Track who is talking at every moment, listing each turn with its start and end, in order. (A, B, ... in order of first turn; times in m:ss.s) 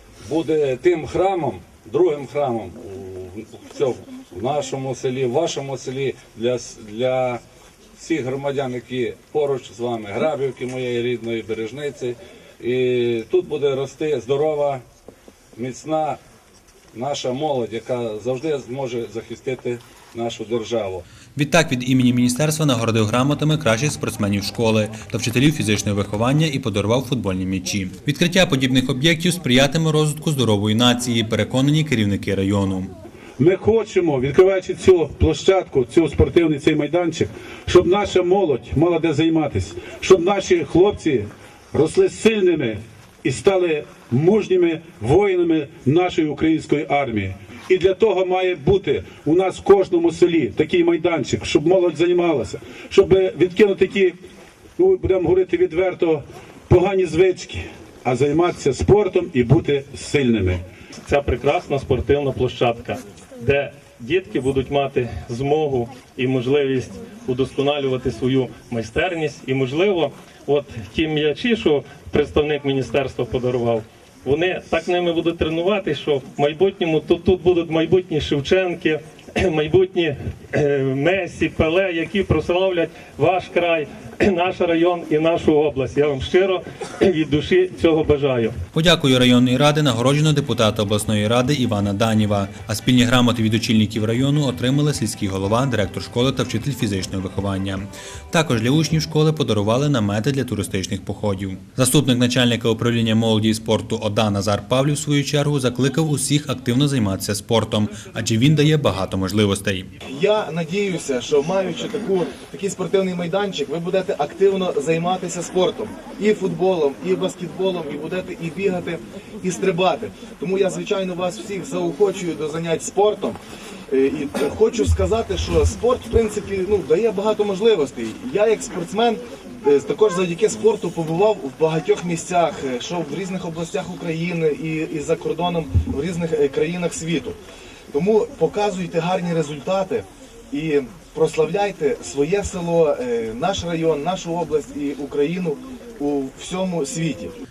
0:00.3-0:07.4 A
0:08.0-0:12.1 A
0:12.7-0:14.8 A
0:15.6-0:16.2 A
0:17.0-0:21.0 A
0:21.4-0:32.9 B
0:33.4-0:54.2 C
0:54.8-1:00.6 C
1:01.0-1:28.6 D
1:28.7-1:49.9 B
1:50.1-2:03.4 E
2:03.9-2:17.4 E
2:17.9-2:27.3 E